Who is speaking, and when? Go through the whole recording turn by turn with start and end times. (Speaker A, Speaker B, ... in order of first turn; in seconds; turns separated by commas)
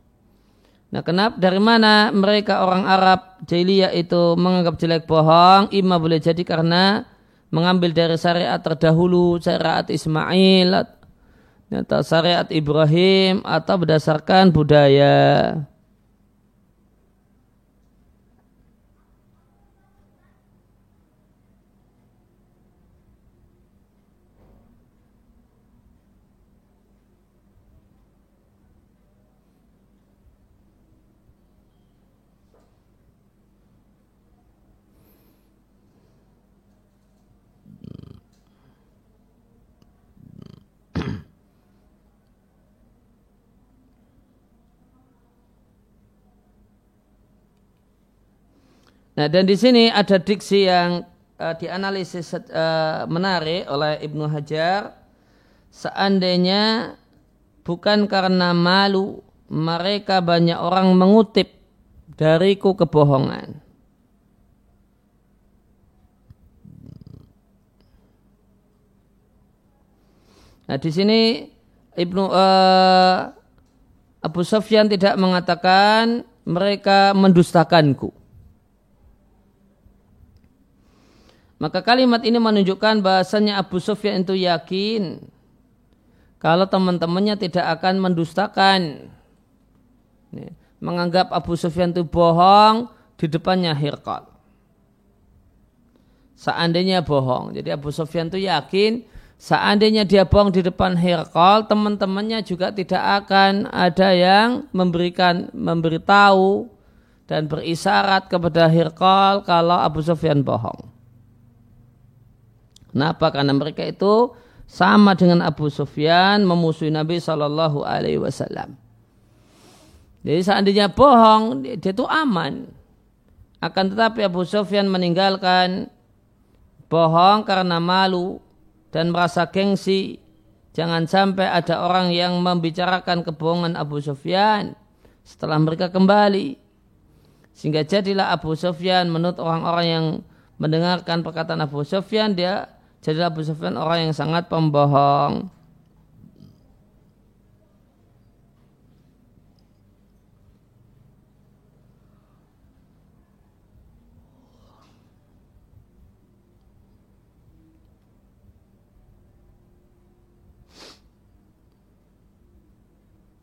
Speaker A: 0.9-7.0, Speaker A: 7.5-10.9, Speaker A: 11.7-15.7, Speaker A: 49.2-54.9, Speaker A: 55.7-57.0, Speaker A: 57.6-61.5, Speaker A: 62.2-63.6, Speaker A: 70.7-73.3, Speaker A: 74.2-78.1, Speaker A: 81.6-85.2, Speaker A: 86.4-89.1, Speaker A: 90.3-94.3, Speaker A: 96.4-106.7, Speaker A: 107.3-110.8, Speaker A: 113.0-118.8, Speaker A: 120.2-122.7, Speaker A: 123.6-125.9, Speaker A: 126.9-128.4, Speaker A: 128.9-130.2, Speaker A: 130.7-134.8, Speaker A: 135.3-136.6, Speaker A: 137.6-145.5